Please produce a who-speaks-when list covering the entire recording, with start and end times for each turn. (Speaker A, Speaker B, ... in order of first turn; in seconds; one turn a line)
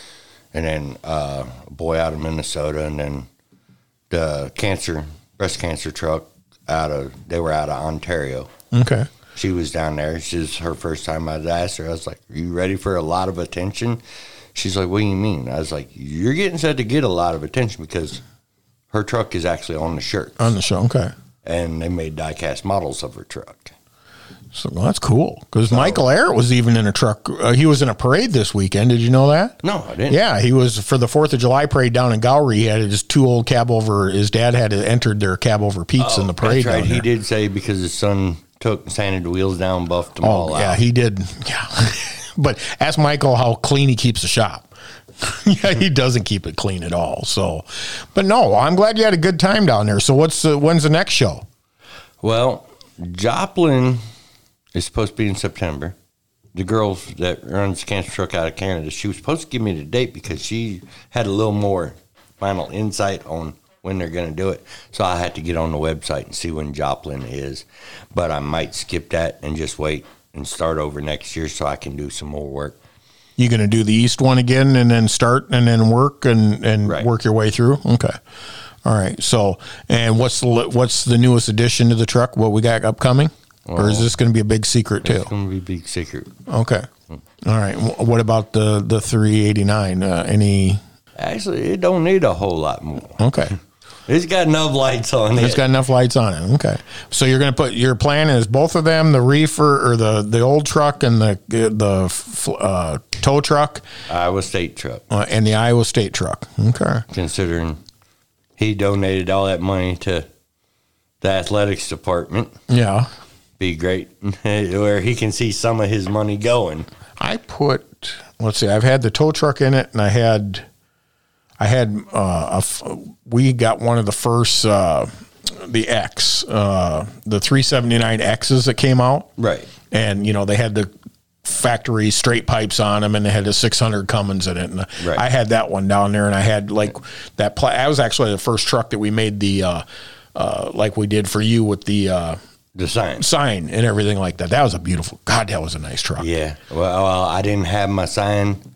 Speaker A: 0.5-3.3
Speaker A: 4.1-8.5
Speaker B: 8.7-9.1
Speaker A: 9.3-14.0
Speaker A: 14.5-18.2
Speaker A: 18.9-20.5
Speaker B: 20.4-21.1
Speaker A: 21.4-23.7
Speaker B: 24.5-29.6
Speaker A: 25.7-26.0
Speaker A: 29.6-30.2
Speaker B: 30.1-37.0
Speaker A: 36.0-40.8
Speaker B: 40.2-51.4
Speaker A: 52.2-54.0
Speaker A: 54.7-56.0
Speaker A: 56.5-72.8
Speaker B: 73.4-78.2
Speaker B: 78.8-85.3
Speaker A: 83.7-84.1
Speaker A: 85.0-86.3
Speaker B: 86.5-86.9
Speaker B: 87.4-90.8
Speaker A: 91.2-93.3
Speaker B: 93.2-93.5
Speaker A: 94.1-95.6
Speaker B: 95.3-103.8
Speaker A: 104.1-105.0
Speaker B: 105.1-107.0
Speaker A: 107.1-107.8
Speaker A: 108.6-110.3
Speaker A: 111.2-112.5
Speaker B: 112.7-113.1
Speaker A: 113.6-116.9
Speaker B: 117.2-120.7
Speaker B: 121.6-129.3
Speaker A: 129.4-129.7
Speaker B: 129.9-130.9
Speaker B: 131.4-142.4
Speaker A: 142.7-143.2
Speaker B: 143.2-146.3
Speaker A: 146.2-148.6